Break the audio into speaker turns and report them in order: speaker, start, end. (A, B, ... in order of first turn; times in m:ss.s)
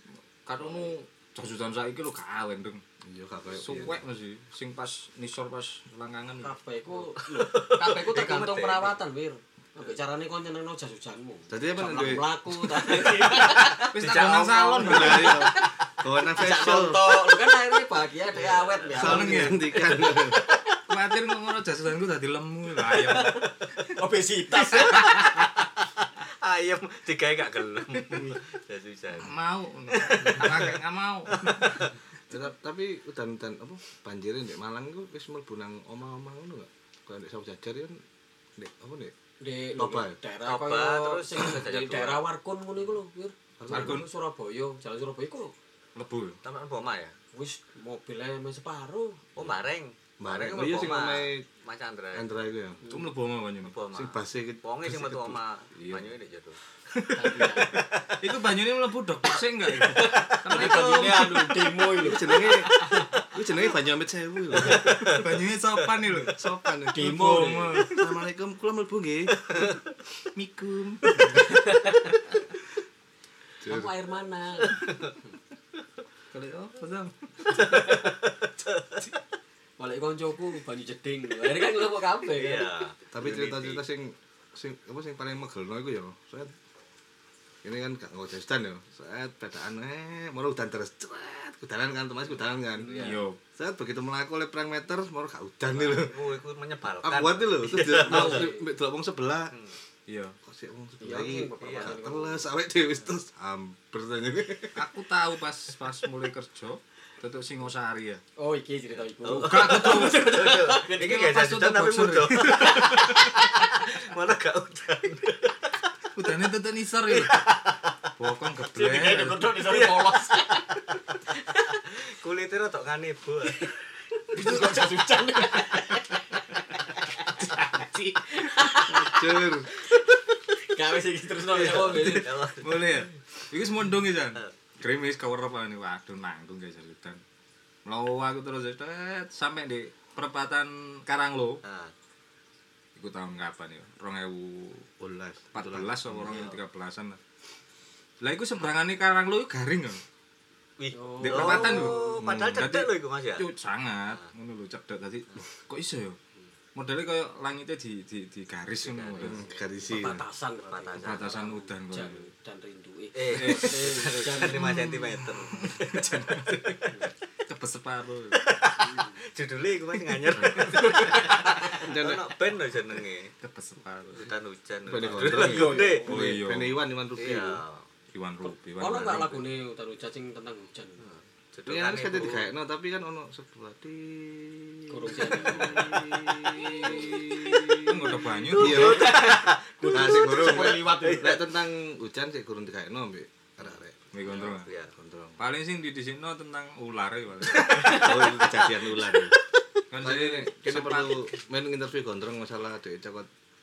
0:00.4-0:02.8 A
0:03.0-0:04.0 B
0:03.5-0:06.5 A
0:06.4-0:14.0 C
0:07.2-0:08.9 D
0:11.5-0:12.3 B
0:12.9-0:15.3 D
0:13.8-0:15.5 A
0:14.8-0:17.2 B
0:14.8-0:15.7 C
0:16.2-0:20.6 C
0:18.3-0:19.0 D
0:18.9-0:19.6 A
0:18.9-0:20.4 B
0:20.9-0:23.5 A
0:23.0-0:25.5 C
0:24.8-0:25.5 D
0:24.9-0:25.2 A
0:26.2-0:29.4 D
0:28.1-0:28.4 C
0:29.2-0:31.8 A
0:29.9-0:30.8 D
0:31.3-0:31.9 D
0:32.3-0:38.0 B
0:38.6-0:39.1 B
0:39.4-0:45.5 C
0:39.8-0:40.2 B
0:40.4-0:42.2 D
0:43.6-0:44.0 B
0:43.7-0:44.1 A
0:45.9-0:46.4 A
0:46.4-0:47.1 D
0:47.3-0:49.2 C
0:49.3-0:52.3 D
0:50.2-0:51.4 B
0:52.1-0:52.8 B
0:52.8-0:53.8 A
0:53.6-0:56.6 D
0:53.9-0:55.4 B
0:55.8-0:56.0 A
0:56.9-1:01.8 A
0:57.1-0:57.8 C
0:57.7-0:58.1 D
0:59.8-1:03.1 C
1:00.5-1:00.8 D
1:02.0-1:05.0 B
1:04.6-1:05.2 D
1:04.7-1:06.4 A
1:06.3-1:09.5 B
1:06.9-1:07.9 C
1:07.0-1:08.0 A
1:10.3-1:11.8 A
1:11.4-1:12.1 C
1:13.6-1:13.9 B
1:13.6-1:14.8 C
1:14.7-1:15.1 D
1:16.3-1:18.0 A
1:17.6-1:18.1 D
1:19.8-1:22.7 C
1:22.3-1:23.8 D
1:23.1-1:26.5 B
1:27.6-1:36.3 B
1:32.8-1:33.2 C
1:32.9-1:33.4 A
1:35.7-1:38.4 D
1:37.0-1:39.5 B
1:38.0-1:38.6 C
1:40.1-1:40.4 A
1:40.4-1:44.8 B
1:41.0-1:42.5 C
1:41.6-1:41.9 D
1:44.7-1:48.2 A
1:48.4-1:51.2 C
1:49.2-1:55.8 D
1:49.3-1:53.3 A
1:52.8-1:53.4 C
1:56.1-1:57.4 A
1:57.1-1:58.1 D
1:58.2-1:59.5 A
1:58.7-2:00.8 C
1:59.6-2:00.6 D
2:01.9-2:03.7 D
2:04.3-2:12.4 C
2:07.7-2:08.0 A
2:08.8-2:09.7 B
2:11.5-2:13.0 D
2:11.9-2:17.2 A
2:17.8-2:21.6 A
2:21.6-2:21.9 D
2:23.0-2:24.9 A
2:25.0-2:26.5 B
2:25.5-2:27.2 A
2:26.2-2:26.6 D
2:28.2-2:30.0 A
2:30.8-2:33.5 D
2:30.9-2:32.1 C
2:31.2-2:36.2 A
2:32.2-2:32.6 B
2:36.7-2:39.4 A
2:38.8-2:39.5 D
2:39.2-2:40.2 B
2:39.8-2:44.8 C
2:40.7-2:41.4 D
2:41.0-2:42.2 A
2:43.1-2:47.0 D
2:43.3-2:48.5 A
2:48.3-2:53.3 D
2:48.8-2:49.2 C
2:50.3-2:51.2 A
2:50.7-2:51.9 C
2:51.7-2:52.3 B
2:53.4-2:54.3 A
2:54.1-2:56.1 D
2:54.8-2:57.6 B
2:55.3-2:56.4 C
2:55.3-2:56.8 A
2:57.2-2:57.8 D
2:58.1-2:59.4 A
2:58.4-3:01.1 C
3:01.5-3:02.5 D
3:01.6-3:07.9 B
3:04.9-3:07.7 C
3:05.4-3:06.1 D
3:06.5-3:07.1 A
3:06.6-3:07.9 D
3:07.7-3:09.1 A
3:08.4-3:11.4 D
3:08.5-3:09.3 B
3:08.5-3:11.4 C
3:09.9-3:14.0 B
3:14.1-3:14.7 A
3:14.2-3:14.9 D
3:14.9-3:15.4 B
3:15.4-3:18.3 A
3:17.6-3:19.4 B
3:19.9-3:21.2 A
3:20.0-3:23.3 B